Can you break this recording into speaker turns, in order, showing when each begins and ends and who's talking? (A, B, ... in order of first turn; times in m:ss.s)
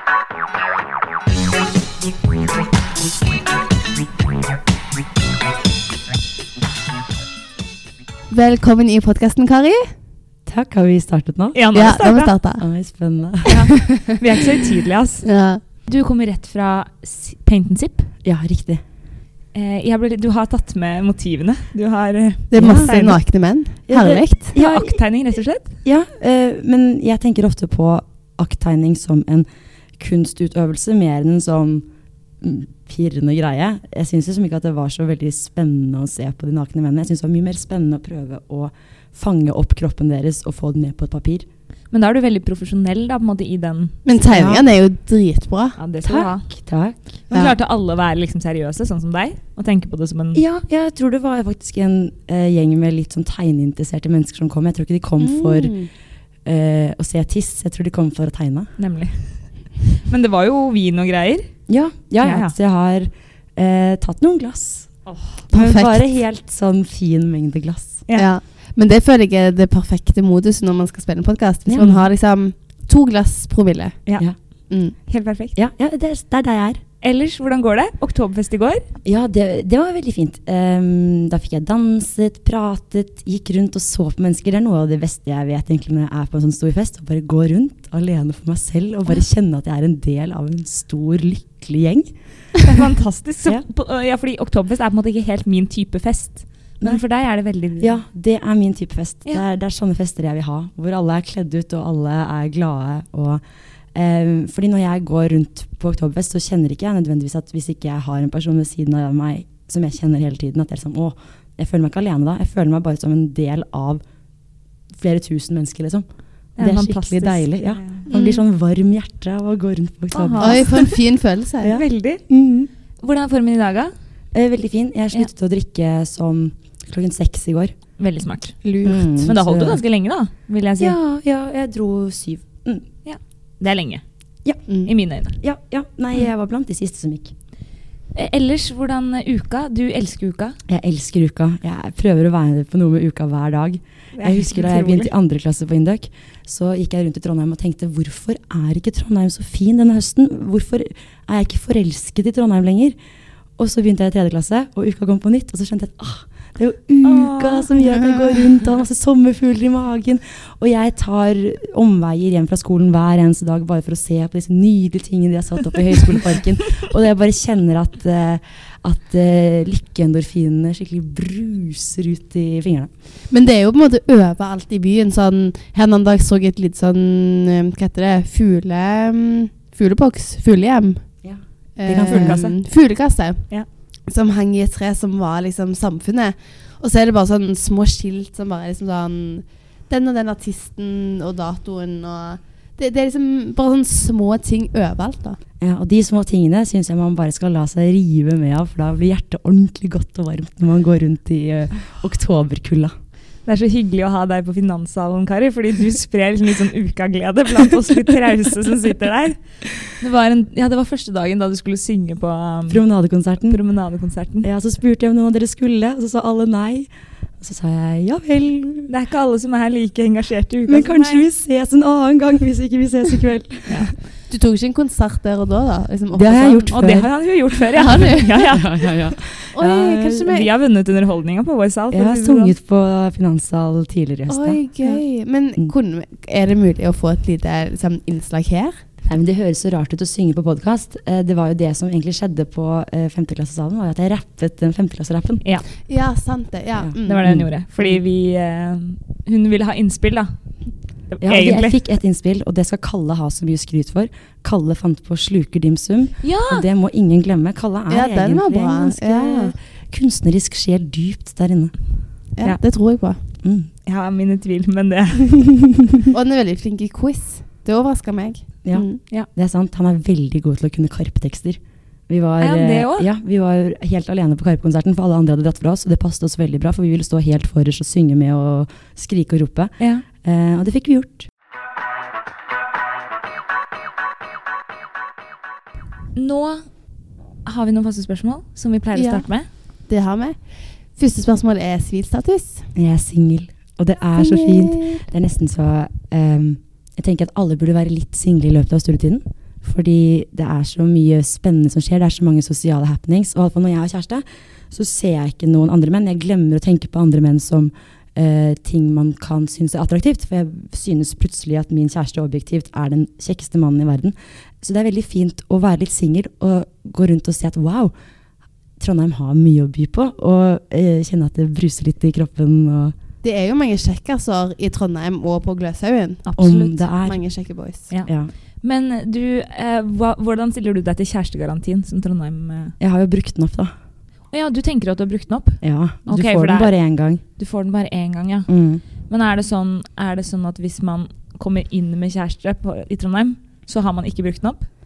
0:08.3-0:09.9 A
0:10.4-0:11.6 B
0:11.5-0:12.3 C
0:11.7-0:12.6 A
0:12.6-0:13.6 B
0:13.4-0:15.3 C
0:13.7-0:14.1 A
0:15.2-0:15.6 A
0:15.8-0:18.1 C
0:18.2-0:18.8 B
0:19.5-0:23.2 C
0:22.5-0:24.6 A
0:22.6-0:22.9 B
0:23.9-0:25.0 B
0:24.5-0:25.7 C
0:25.8-0:29.5 B
0:30.0-0:31.9 B
0:32.4-0:41.4 B
0:41.9-0:44.0 C
0:44.0-0:45.8 A
0:44.3-0:44.6 B
0:45.8-0:46.4 C
0:46.0-0:47.0 B
0:47.3-0:50.4 C
0:47.3-0:47.6 A
0:50.3-0:55.7 B
0:55.2-0:55.9 A
0:56.4-0:58.7 B
0:58.8-1:01.5 C
1:01.7-1:04.9 B
1:02.2-1:02.6 C
1:05.0-1:05.4 C
1:05.5-1:08.0 B
1:05.5-1:06.0 A
1:08.1-1:14.0 A
1:11.7-1:12.0 B
1:14.7-1:15.0 A
1:15.0-1:15.6 C
1:15.6-1:16.8 B
1:17.0-1:18.8 C
1:19.0-1:32.1 B
1:32.6-1:37.9 C
1:37.8-1:43.4 B
1:43.9-1:54.0 B
1:54.9-2:00.8 B
1:56.6-1:58.1 C
1:58.1-1:58.4 A
2:00.1-2:01.0 C
2:00.4-2:01.8 A
2:01.6-2:02.7 B
2:01.6-2:02.2 C
2:03.0-2:03.9 C
2:04.3-2:07.7 B
2:08.0-2:08.6 C
2:08.6-2:09.1 A
2:08.8-2:09.8 B
2:09.2-2:11.0 C
2:10.8-2:12.8 B
2:13.0-2:14.0 C
2:14.8-2:15.4 C
2:15.4-2:17.3 B
2:18.1-2:20.6 C
2:20.7-2:33.0 B
2:24.1-2:25.1 C
2:33.6-2:52.9 B
2:37.0-2:38.0 C
2:53.3-3:01.0 A
3:01.2-3:02.5 B
3:01.8-3:03.5 A
3:02.1-3:02.6 C
3:04.1-3:15.4 A
3:15.6-3:22.9 B
3:23.4-3:32.8 C
3:32.7-3:33.6 B
3:33.5-3:34.5 C
3:34.4-3:36.9 B
3:37.4-3:38.9 B
3:38.9-3:41.3 C
3:40.7-3:43.9 B
3:43.7-3:43.9 C
3:44.3-3:46.8 A
3:46.1-3:47.1 B
3:46.7-3:48.8 C
3:47.7-3:48.5 A
3:48.5-3:50.3 B
3:49.5-3:50.5 A
3:50.3-3:52.5 C
3:51.9-3:55.0 B
3:54.3-3:58.8 A
3:59.0-4:05.4 B
4:05.9-4:07.4 A
4:06.8-4:08.0 B
4:07.0-4:10.4 C
4:11.1-4:11.8 C
4:11.2-4:21.7 B
4:16.2-4:16.6 C
4:17.9-4:19.5 A
4:22.4-4:23.2 A
4:23.4-4:23.7 B
4:23.8-4:25.4 C
4:26.1-4:29.0 A
4:28.6-4:41.3 B
4:32.4-4:33.1 C
4:39.8-4:40.0 C
4:46.1-4:46.7 C
4:47.4-4:49.5 C
4:48.9-4:49.3 A
4:49.9-4:52.7 A
4:52.7-5:17.9 B
4:54.2-4:55.0 A
5:18.8-5:23.0 B
5:23.2-5:26.2 A
5:26.2-5:26.8 C
5:26.4-5:27.2 B
5:27.0-5:27.9 A
5:28.0-5:28.3 B
5:28.6-5:32.7 C
5:32.8-5:33.7 B
5:34.3-5:36.7 C
5:35.6-5:37.2 B
5:37.4-5:38.5 C
5:38.5-5:38.8 B
5:39.1-5:44.6 C